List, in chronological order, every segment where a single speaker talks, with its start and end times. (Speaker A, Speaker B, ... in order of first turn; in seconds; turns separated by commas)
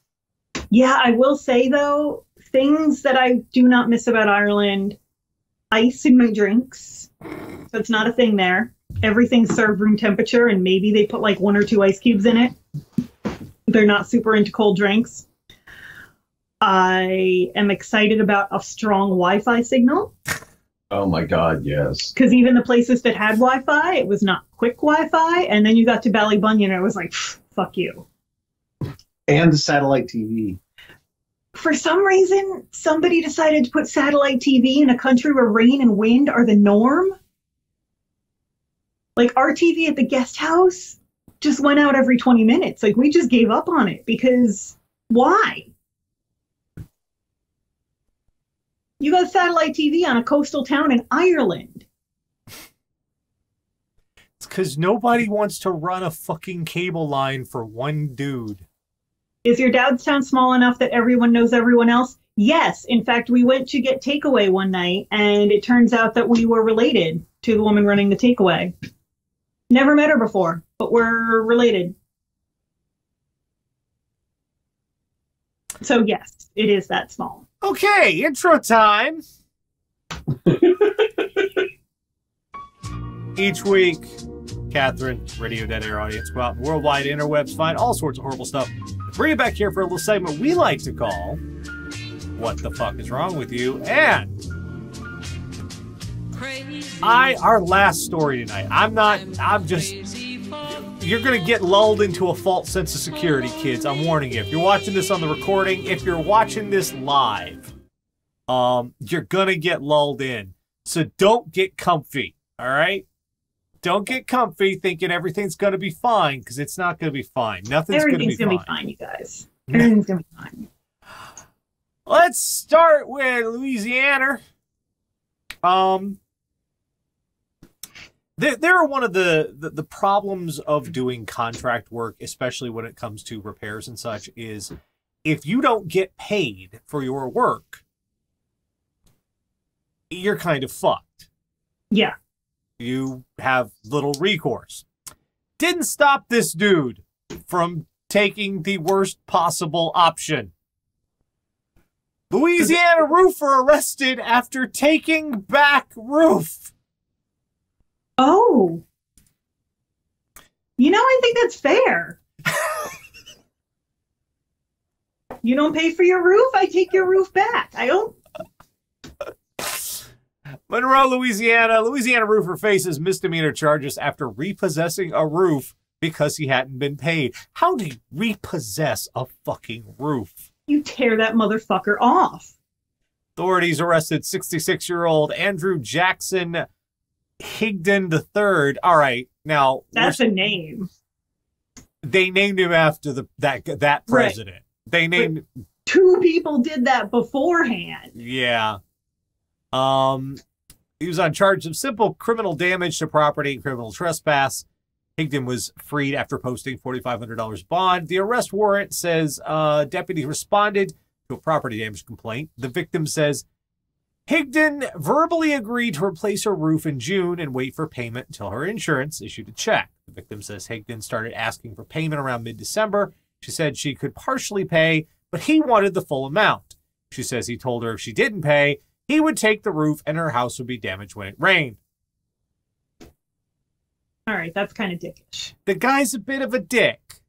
Speaker A: 0.7-5.0, Speaker A: 5.7-7.1, Speaker A: 7.7-12.6, Speaker A: 13.7-15.3, Speaker A: 16.6-20.1, Speaker B: 20.9-22.1, Speaker A: 22.1-28.1, Speaker B: 29.3-30.6, Speaker A: 31.6-37.2, Speaker A: 39.2-45.7, Speaker A: 49.0-51.9, Speaker C: 54.4-58.6, Speaker A: 59.5-68.7, Speaker A: 69.7-72.0, Speaker A: 75.8-77.5, Speaker C: 77.6-79.2, Speaker C: 83.4-84.1, Speaker C: 84.7-91.4, Speaker C: 92.4-94.4, Speaker C: 97.0-107.7, Speaker C: 108.5-113.1, Speaker C: 113.8-118.7, Speaker A: 117.9-120.7, Speaker C: 122.1-124.4, Speaker C: 125.6-126.2, Speaker C: 128.4-134.7, Speaker C: 135.2-137.8, Speaker C: 140.1-141.3, Speaker C: 142.8-144.9, Speaker C: 145.6-150.5, Speaker C: 152.3-156.7, Speaker A: 158.2-158.8, Speaker A: 160.8-162.2, Speaker A: 165.4-168.2, Speaker C: 169.6-170.0, Speaker C: 170.7-180.4, Speaker A: 180.7-182.5, Speaker C: 183.4-186.7, Speaker C: 187.4-190.2, Speaker A: 189.9-190.9, Speaker C: 192.0-195.5, Speaker A: 194.1-194.4, Speaker A: 195.9-198.1, Speaker C: 198.2-198.8, Speaker C: 199.7-200.4, Speaker C: 201.0-204.7, Speaker C: 205.2-213.4, Speaker C: 214.3-231.8, Speaker A: 234.3-235.5, Speaker C: 235.7-237.2